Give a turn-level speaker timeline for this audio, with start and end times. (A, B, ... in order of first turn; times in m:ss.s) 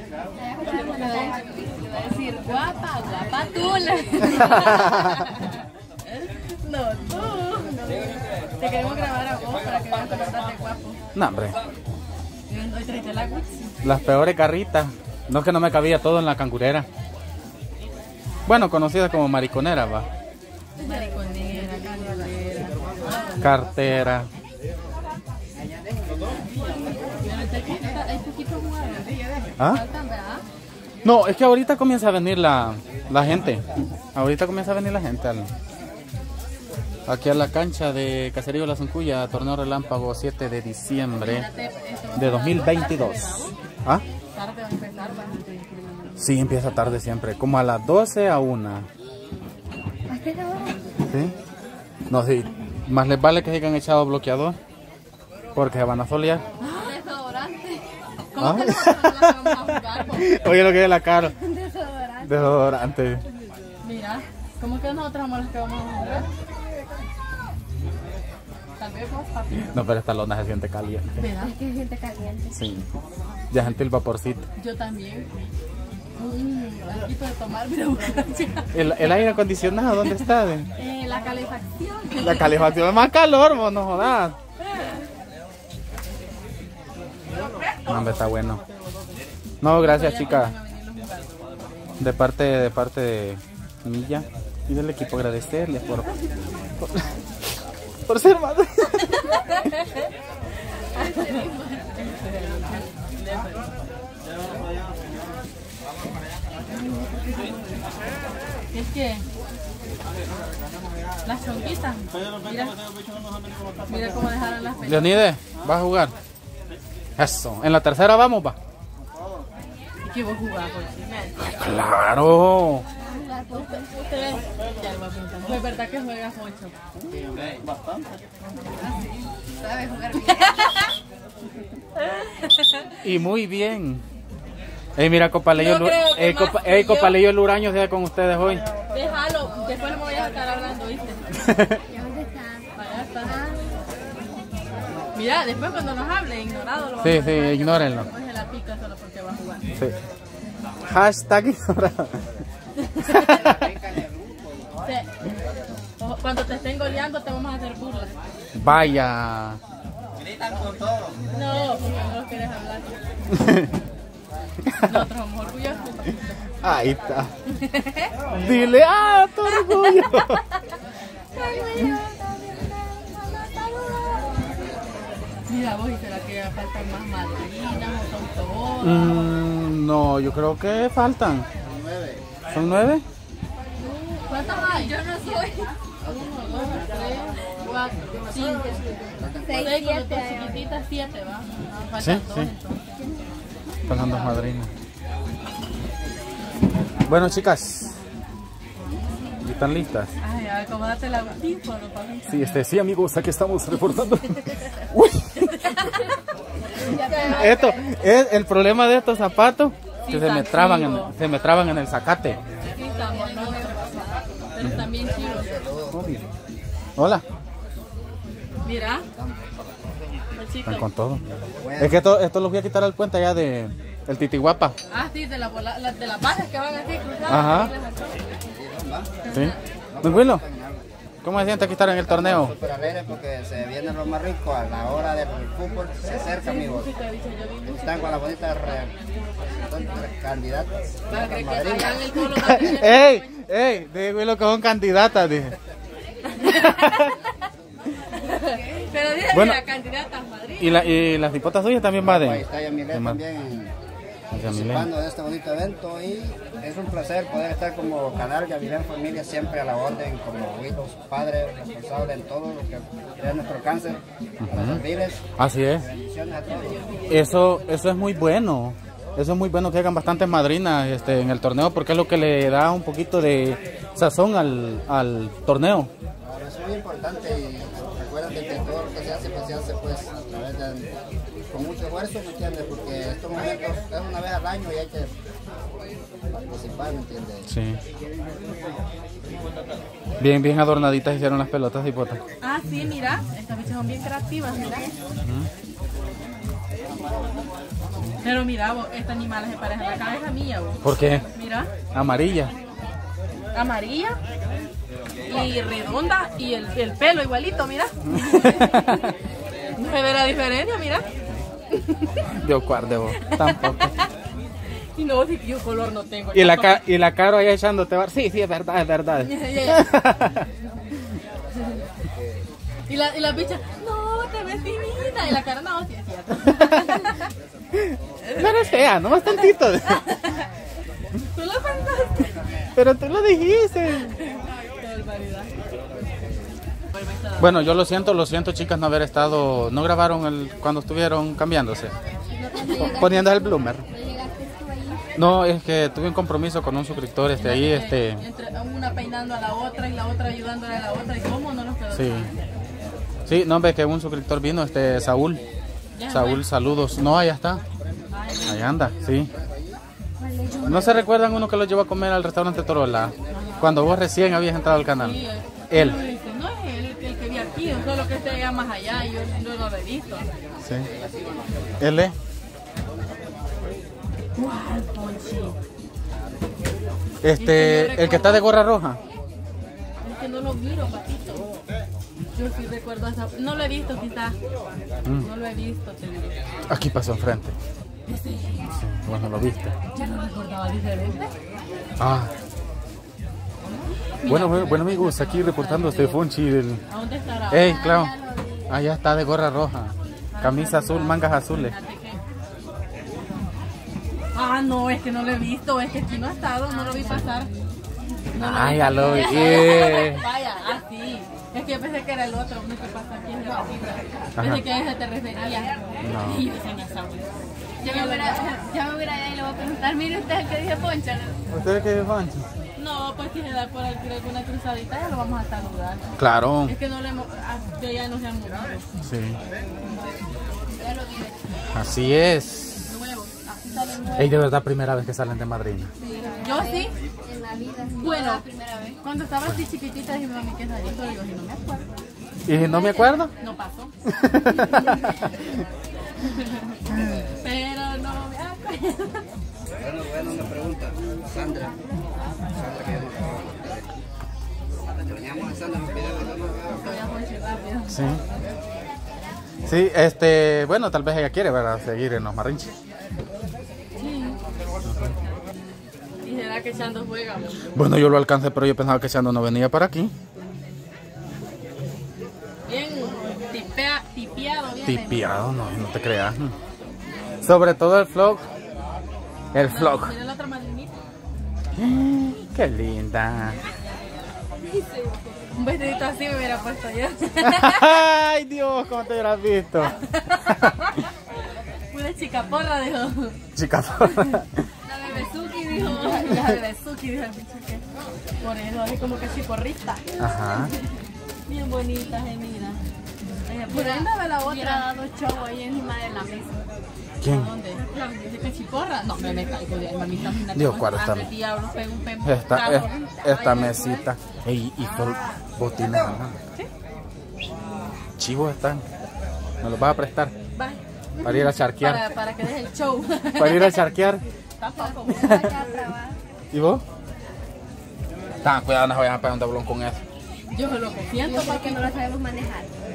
0:00.4-0:02.0 A
0:00.6-0:01.4 B
0:02.0-0:11.0 B
0:03.2-0:05.1 A
0:04.5-0:05.0 C
0:11.1-0:11.6 C
0:12.5-0:13.8 B
0:13.8-0:16.9 C
0:18.4-0:20.1 C
0:20.8-0:23.6 B
0:23.4-0:24.3 C
0:27.2-0:30.4 B
0:31.0-0:35.5 C
0:37.0-0:41.5 C
0:41.2-0:43.5 B
0:42.2-0:44.0 C
0:44.3-0:46.5 B
0:46.2-0:48.9 C
0:50.1-0:50.8 A
0:51.0-0:51.3 C
0:52.1-0:54.6 C
0:55.5-0:56.4 C
0:56.6-0:57.0 B
0:56.9-0:57.8 A
0:58.3-1:00.3 B
0:58.4-1:01.3 C
1:01.4-1:02.6 A
1:02.2-1:03.2 C
1:03.8-1:06.3 B
1:08.8-1:09.8 B
1:09.6-1:11.2 C
1:11.2-1:11.6 B
1:11.7-1:12.5 A
1:12.5-1:12.9 C
1:13.5-1:14.4 C
1:14.6-1:15.3 B
1:16.2-1:19.4 B
1:18.7-1:20.7 C
1:20.8-1:22.8 B
1:22.2-1:24.4 C
1:24.6-1:25.0 B
1:27.8-1:28.6 C
1:29.6-1:30.5 C
1:29.7-1:31.8 B
1:32.0-1:36.1 C
1:36.8-1:37.1 C
1:38.1-1:39.5 C
1:39.2-1:40.1 B
1:40.8-1:43.7 B
1:40.9-1:41.8 A
1:46.8-1:47.8 A
1:48.7-1:49.2 B
1:51.2-1:52.8 B
1:53.8-1:55.3 B
1:54.8-1:56.1 C
1:57.2-1:58.6 C
2:00.0-2:01.5 B
2:01.4-2:02.8 C
2:03.1-2:03.8 A
2:03.5-2:06.8 B
2:09.0-2:10.8 A
2:10.6-2:10.9 B
2:12.0-2:13.0 B
2:13.0-2:14.0 C
2:15.0-2:18.6 C
2:15.5-2:17.2 B
2:18.9-2:21.4 B
2:21.4-2:21.8 C
2:21.9-2:22.7 A
2:22.8-2:23.7 B
2:25.1-2:29.7 B
2:27.0-2:28.1 C
2:30.8-2:32.3 C
2:32.8-2:33.3 B
2:33.0-2:33.7 C
2:33.4-2:34.0 D
2:34.8-2:35.1 B
2:36.0-2:38.1 B
2:38.5-2:39.6 C
2:41.3-2:43.0 B
2:43.3-2:43.7 C
2:44.6-2:45.0 C
2:44.8-2:46.3 B
2:46.6-2:47.3 C
2:47.5-2:48.1 B
2:48.3-2:50.4 C
2:49.4-2:50.4 B
2:51.3-2:54.6 A
2:55.5-2:59.4 B
2:58.8-3:01.5 C
3:01.7-3:02.2 D
3:02.5-3:03.0 C
3:04.1-3:05.4 B
3:04.3-3:05.7 A
3:06.0-3:08.8 B
3:09.0-3:10.5 A
3:09.2-3:09.9 D
3:09.4-3:12.8 B
3:12.0-3:12.5 C
3:13.9-3:14.7 C
3:17.1-3:18.0 C
3:19.4-3:20.1 C
3:20.2-3:22.6 B
3:22.3-3:25.5 C
3:24.5-3:24.8 B
3:25.3-3:26.2 B
3:26.8-3:27.7 B
3:26.8-3:27.8 A
3:27.1-3:32.4 C
3:30.0-3:31.1 B
3:32.7-3:35.6 B
3:33.3-3:33.7 A
3:34.6-3:34.9 C
3:35.1-3:36.1 D
3:35.9-3:36.2 C
3:37.0-3:37.2 C
3:38.6-3:39.0 B
3:39.2-3:39.4 D
3:40.3-3:40.8 B
3:40.6-3:41.2 C
3:41.6-3:42.1 D
3:41.8-3:44.7 C
3:44.9-3:48.2 B
3:47.3-3:47.7 C
3:48.5-3:49.1 D
3:49.2-3:49.6 B
3:49.3-3:50.4 C
3:49.9-3:56.9 D
3:51.2-3:52.6 C
3:56.2-3:59.8 B
3:57.6-3:58.9 D
3:59.6-4:02.0 D
4:01.1-4:03.3 B
4:02.0-4:05.6 C
4:06.3-4:07.3 B
4:06.5-4:07.1 C
4:08.1-4:11.0 B
4:09.3-4:09.6 C
4:10.6-4:13.2 C
4:12.0-4:13.7 D
4:14.3-4:14.9 C
4:14.4-4:27.0 D
4:24.4-4:25.8 C
4:27.0-4:35.9 C
4:36.2-4:40.9 D
4:41.5-4:45.1 D
4:46.3-4:47.5 D
4:47.5-4:47.8 C
4:50.2-4:52.2 C
4:52.4-4:54.9 B
4:55.2-4:55.5 C
4:58.2-5:01.7 B
5:00.8-5:01.3 C
5:01.9-5:02.5 C
5:03.5-5:04.2 B
5:05.3-5:09.1 B
5:08.1-5:09.1 C
5:09.8-5:11.0 B
5:11.7-5:12.2 B
5:12.3-5:13.9 C
5:13.2-5:14.1 B
5:14.9-5:16.8 B
5:16.3-5:20.5 C
5:19.2-5:20.1 B
5:22.9-5:27.3 B
5:27.8-5:30.1 C
5:28.2-5:30.5 B
5:31.2-5:32.4 B
5:32.7-5:34.1 C
5:34.0-5:35.5 B
5:37.0-5:37.5 B
5:37.4-5:41.9 C
5:42.4-5:45.0 A
5:42.6-5:43.8 C
5:42.6-5:42.9 B
5:45.2-5:48.2 C
5:47.4-5:52.4 B
5:51.9-5:52.3 C
5:53.2-5:55.4 C
5:55.9-5:56.5 B
5:56.1-5:57.6 C
5:58.1-5:58.7 B
5:58.4-5:59.3 C
5:59.3-5:59.8 D
6:00.2-6:01.0 A
6:00.6-6:06.0 C
6:03.3-6:03.9 B
6:04.9-6:10.3 B
6:10.6-6:10.9 C
6:10.8-6:11.6 D
6:11.8-6:12.1 C
6:14.4-6:15.6 B
6:17.2-6:19.0 C
6:17.4-6:18.5 B
6:20.0-6:21.5 B
6:22.3-6:24.4 B
6:25.2-6:26.4 B
6:26.7-6:27.6 C
6:28.1-6:28.8 B
6:28.7-6:29.8 C
6:29.9-6:31.3 B
6:32.0-6:32.3 C
6:33.7-6:36.2 B
6:34.2-6:36.8 C
6:36.9-6:37.9 B
6:37.5-6:38.1 C
6:37.6-6:38.7 A
6:38.7-6:41.7 C
6:40.3-6:42.2 B
6:44.3-6:47.5 B
6:48.3-6:57.3 B
6:48.3-6:50.2 C
6:49.2-6:50.1 A
6:54.4-6:54.6 C
6:56.0-6:56.4 C
6:57.8-6:58.6 B
6:57.8-7:01.4 A
7:01.5-7:02.5 C
7:02.8-7:08.9 B
7:06.2-7:06.7 C
7:09.0-7:09.4 C
7:10.8-7:11.4 A
7:11.7-7:12.9 C
7:12.9-7:14.5 B
7:14.1-7:15.9 C
7:16.0-7:16.6 A
7:16.4-7:16.9 B
7:17.3-7:18.3 A
7:17.9-7:18.4 B
7:19.0-7:21.9 B
7:22.4-7:23.3 C
7:22.5-7:23.3 A
7:22.7-7:23.9 B
7:24.1-7:25.4 C
7:24.5-7:24.9 B
7:26.2-7:26.8 B
7:27.0-7:27.2 D
7:27.3-7:29.2 B
7:29.8-7:31.8 D
7:32.5-7:33.9 D
7:35.0-7:37.0 D
7:36.8-7:38.0 B
7:37.9-7:38.2 C
7:39.6-7:42.7 C
7:44.0-7:44.4 B
7:46.2-7:47.6 B
7:47.7-7:50.1 C
7:52.7-7:55.3 B
7:54.8-7:56.5 C
7:57.4-7:58.4 C
7:59.5-8:00.1 C
7:59.5-8:00.9 B
8:01.8-8:03.6 C
8:04.8-8:05.4 A
8:05.5-8:08.0 B
8:07.4-8:10.0 C
8:09.8-8:11.1 B
8:11.9-8:13.4 B
8:13.5-8:14.6 C
8:14.0-8:14.3 B
8:14.9-8:16.4 A
8:15.7-8:17.8 B
8:18.4-8:20.0 B
8:20.2-8:20.7 C
8:21.5-8:22.8 B
8:23.5-8:26.6 A
8:23.5-8:24.9 B
8:27.2-8:27.5 C
8:27.2-8:34.0 B
8:27.8-8:28.2 A
8:30.5-8:31.3 C
8:32.2-8:36.4 C
8:38.2-8:38.8 C
8:39.6-8:40.3 C
8:40.5-8:40.8 B
8:41.2-8:42.1 C
8:41.4-8:43.8 B
8:43.4-8:44.2 C
8:44.6-8:45.6 B
8:44.9-8:46.2 A
8:45.1-8:45.6 C
8:46.5-8:46.8 C
8:48.4-8:50.0 C
8:50.5-8:52.0 B
8:51.4-8:52.5 A